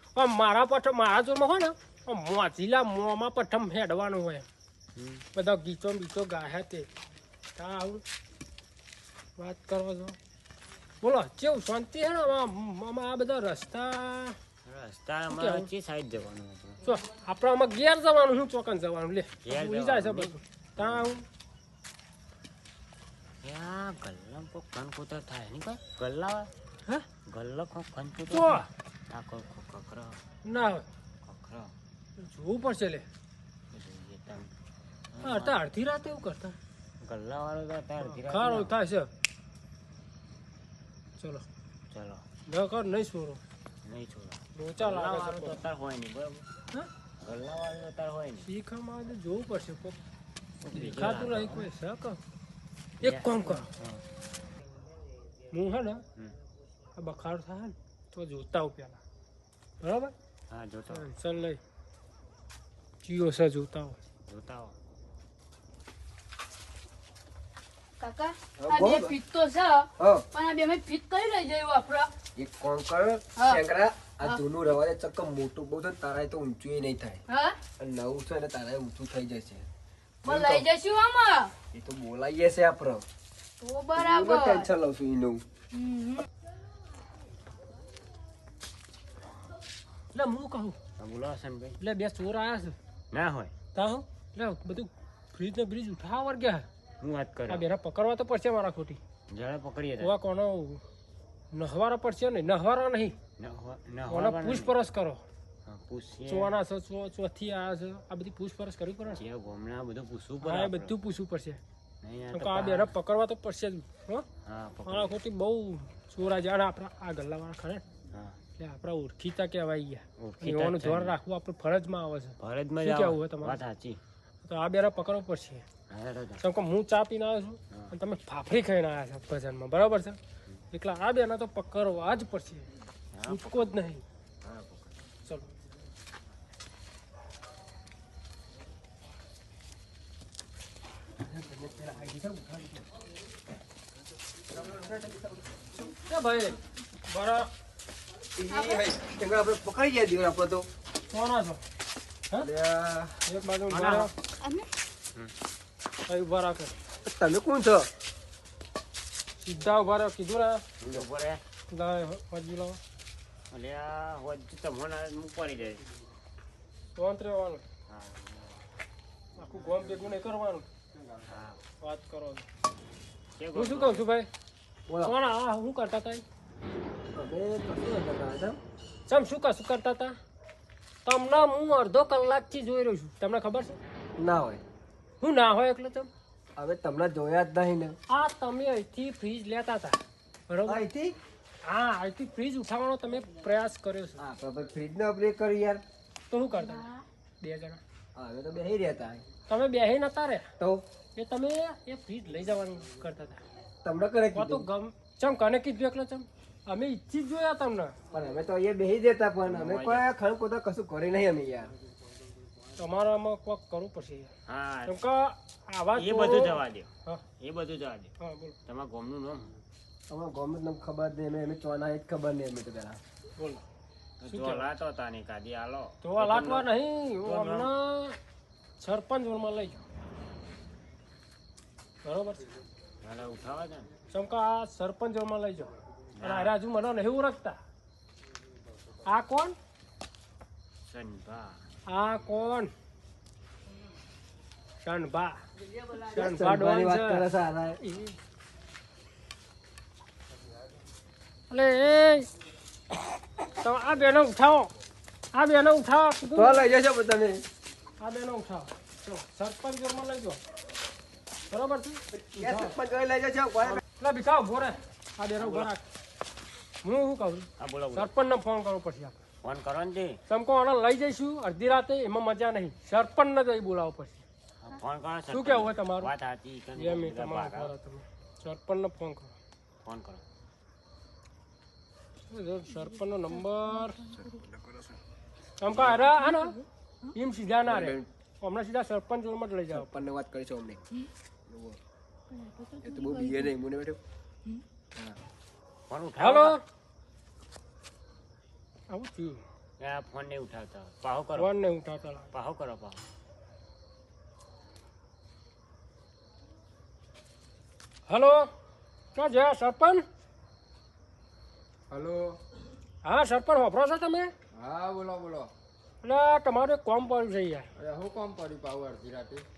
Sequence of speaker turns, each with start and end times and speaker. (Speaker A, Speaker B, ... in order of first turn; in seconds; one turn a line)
Speaker A: 0.1-4.5
Speaker B: 5.0-5.3
Speaker A: 5.3-6.9
Speaker A: 7.6-8.0
Speaker A: 9.4-10.2
Speaker A: 11.0-14.4
Speaker B: 14.7-16.8
Speaker A: 15.3-15.7
Speaker A: 16.8-21.2
Speaker B: 19.4-21.2
Speaker B: 23.4-26.5
Speaker B: 27.3-30.2
Speaker A: 28.3-28.7
Speaker A: 30.4-30.9
Speaker B: 31.2-31.7
Speaker A: 32.2-33.0
Speaker B: 33.7-34.5
Speaker B: 35.1-35.6
Speaker A: 35.2-36.6
Speaker B: 37.0-38.8
Speaker A: 38.0-39.1
Speaker A: 41.2-41.5
Speaker B: 41.9-42.2
Speaker A: 42.5-43.4
Speaker B: 43.9-46.5
Speaker A: 44.5-45.6
Speaker B: 47.2-48.5
Speaker A: 48.4-50.0
Speaker B: 50.6-51.7
Speaker A: 50.7-52.2
Speaker B: 53.0-54.0
Speaker A: 53.0-53.7
Speaker A: 55.5-56.0
Speaker A: 57.0-59.0
Speaker A: 59.8-60.1
Speaker B: 60.5-61.1
Speaker A: 60.9-61.6
Speaker A: 63.0-64.0
Speaker B: 64.3-64.8
Speaker C: 68.0-72.1
Speaker D: 68.6-69.2
Speaker D: 70.0-70.2
Speaker D: 72.4-77.2
Speaker C: 73.4-73.6
Speaker C: 77.3-77.6
Speaker D: 77.8-79.7
Speaker D: 80.2-80.7
Speaker C: 80.2-81.5
Speaker D: 81.7-83.0
Speaker C: 83.6-84.7
Speaker D: 84.0-85.4
Speaker C: 85.7-86.3
Speaker A: 90.1-90.8
Speaker B: 91.0-91.8
Speaker A: 91.8-92.8
Speaker B: 93.1-93.5
Speaker A: 93.8-96.7
Speaker B: 97.0-97.7
Speaker A: 97.5-99.0
Speaker B: 99.3-100.1
Speaker A: 100.0-100.8
Speaker A: 101.5-103.2
Speaker B: 103.4-104.8
Speaker A: 104.1-105.2
Speaker B: 105.7-106.5
Speaker A: 106.3-109.2
Speaker B: 109.1-110.9
Speaker A: 110.4-111.6
Speaker B: 112.0-112.9
Speaker A: 112.3-114.3
Speaker B: 114.5-115.2
Speaker A: 114.9-117.8
Speaker B: 118.1-118.4
Speaker A: 118.6-123.6
Speaker B: 120.2-121.2
Speaker B: 122.4-124.0
Speaker A: 124.5-125.6
Speaker B: 125.9-126.4
Speaker A: 126.4-130.2
Speaker A: 130.7-132.7
Speaker B: 133.1-133.7
Speaker A: 133.2-134.0
Speaker B: 134.4-134.9
Speaker D: 141.2-142.8
Speaker D: 144.5-145.9
Speaker A: 146.1-147.5
Speaker D: 148.4-150.7
Speaker C: 148.5-148.9
Speaker A: 151.1-151.6
Speaker D: 152.4-154.1
Speaker A: 153.3-154.1
Speaker C: 154.4-154.7
Speaker A: 156.1-156.8
Speaker D: 157.0-157.9
Speaker A: 159.4-160.6
Speaker B: 160.8-161.4
Speaker A: 161.7-162.8
Speaker B: 163.5-165.8
Speaker A: 167.0-167.6
Speaker B: 167.9-168.6
Speaker A: 169.4-170.7
Speaker B: 171.2-171.6
Speaker A: 171.8-172.5
Speaker B: 173.4-174.1
Speaker A: 173.5-174.3
Speaker D: 174.9-175.2
Speaker A: 175.0-176.2
Speaker D: 177.1-178.6
Speaker A: 179.1-180.2
Speaker A: 181.1-183.8
Speaker D: 184.2-184.6
Speaker A: 185.2-186.1
Speaker D: 186.6-188.0
Speaker A: 188.1-190.8
Speaker D: 190.7-191.2
Speaker A: 191.6-194.2
Speaker D: 194.2-195.8
Speaker A: 196.3-196.9
Speaker A: 197.4-197.8
Speaker D: 198.2-199.2
Speaker A: 199.5-200.5
Speaker A: 201.2-203.4
Speaker D: 203.8-204.7
Speaker A: 204.3-208.0
Speaker D: 208.1-211.7
Speaker B: 209.4-210.1
Speaker A: 212.8-214.3
Speaker B: 214.5-215.0
Speaker A: 214.9-217.2
Speaker B: 215.9-216.9
Speaker B: 217.4-218.1
Speaker A: 218.2-218.6
Speaker B: 218.7-219.6
Speaker D: 220.1-223.0
Speaker A: 223.4-223.6
Speaker B: 224.2-226.7
Speaker A: 224.2-224.7
Speaker A: 226.0-228.2
Speaker B: 227.2-227.7
Speaker A: 228.8-229.8
Speaker A: 232.0-232.5
Speaker B: 233.0-233.9
Speaker A: 234.1-237.6
Speaker B: 236.2-236.6
Speaker A: 239.1-239.6
Speaker B: 240.9-241.6
Speaker A: 241.9-242.7
Speaker A: 244.8-245.4
Speaker A: 245.9-247.3
Speaker D: 246.1-247.8
Speaker A: 247.8-248.1
Speaker A: 251.5-252.3
Speaker A: 253.4-254.7
Speaker A: 255.3-256.6
Speaker D: 256.3-257.4
Speaker A: 258.0-260.4
Speaker A: 261.5-262.8
Speaker D: 262.1-263.8
Speaker A: 263.7-265.8
Speaker B: 265.4-265.7
Speaker A: 266.8-269.2
Speaker B: 267.6-268.1
Speaker B: 269.4-270.2
Speaker A: 270.3-274.2
Speaker B: 274.6-277.7
Speaker A: 275.3-276.1
Speaker A: 276.8-279.3
Speaker B: 279.8-280.2
Speaker A: 282.3-284.1
Speaker C: 283.7-284.4
Speaker D: 284.3-284.9
Speaker A: 285.6-286.6
Speaker B: 285.7-286.1
Speaker C: 286.2-287.1
Speaker A: 287.1-290.0
Speaker D: 287.6-288.1
Speaker D: 289.7-290.8
Speaker D: 291.5-291.8
Speaker C: 292.3-293.5
Speaker D: 292.8-294.0
Speaker B: 295.9-296.6
Speaker A: 296.2-296.6
Speaker A: 298.9-299.4
Speaker B: 299.8-301.5
Speaker A: 301.4-302.3
Speaker B: 302.3-303.0
Speaker A: 308.1-308.5
Speaker A: 309.1-310.0
Speaker E: 311.9-312.4
Speaker A: 313.0-314.3
Speaker E: 314.5-315.5
Speaker A: 316.0-317.7
Speaker E: 317.8-319.5